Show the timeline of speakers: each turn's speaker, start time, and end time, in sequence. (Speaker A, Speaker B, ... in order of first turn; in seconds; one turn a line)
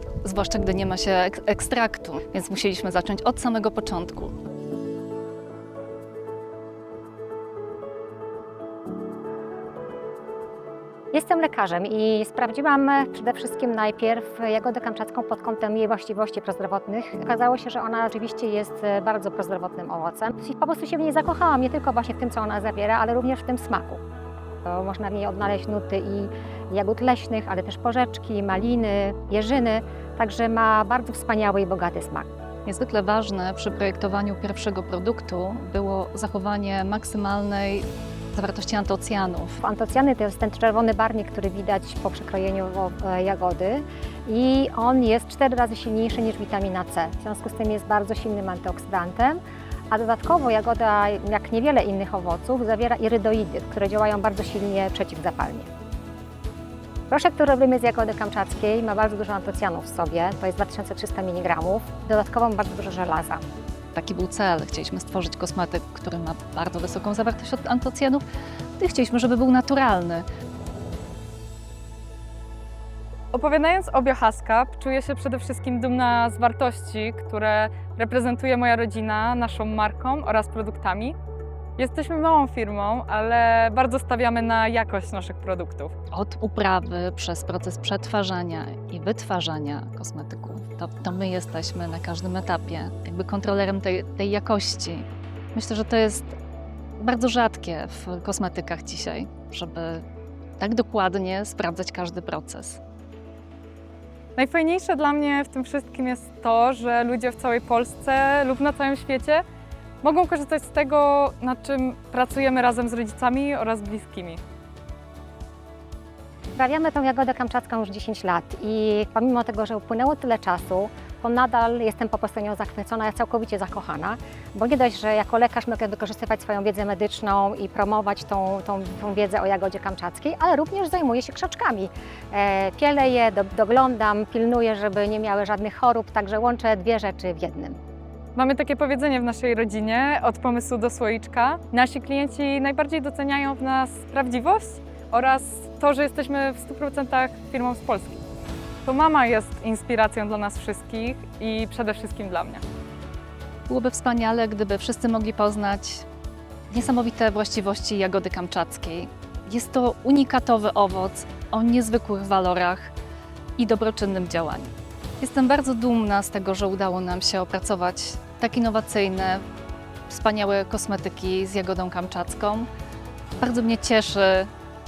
Speaker A: 0.2-4.3
Speaker B: 11.1-24.0
Speaker B: 24.6-32.3
Speaker A: 32.6-39.6
Speaker B: 39.6-55.7
Speaker B: 57.1-63.4
Speaker A: 63.9-68.2
Speaker A: 68.8-70.2
Speaker C: 73.3-81.2
Speaker C: 81.8-85.9
Speaker A: 86.1-96.3
Speaker A: 97.0-100.0
Speaker A: 100.6-102.8
Speaker C: 104.3-109.4
Speaker C: 110.0-114.4
Speaker B: 116.5-137.8
Speaker C: 138.3-148.2
Speaker C: 148.8-152.6
Speaker A: 153.7-156.1
Speaker A: 156.7-162.9
Speaker A: 163.6-169.4
Speaker A: 170.1-172.7
Speaker A: 173.4-174.5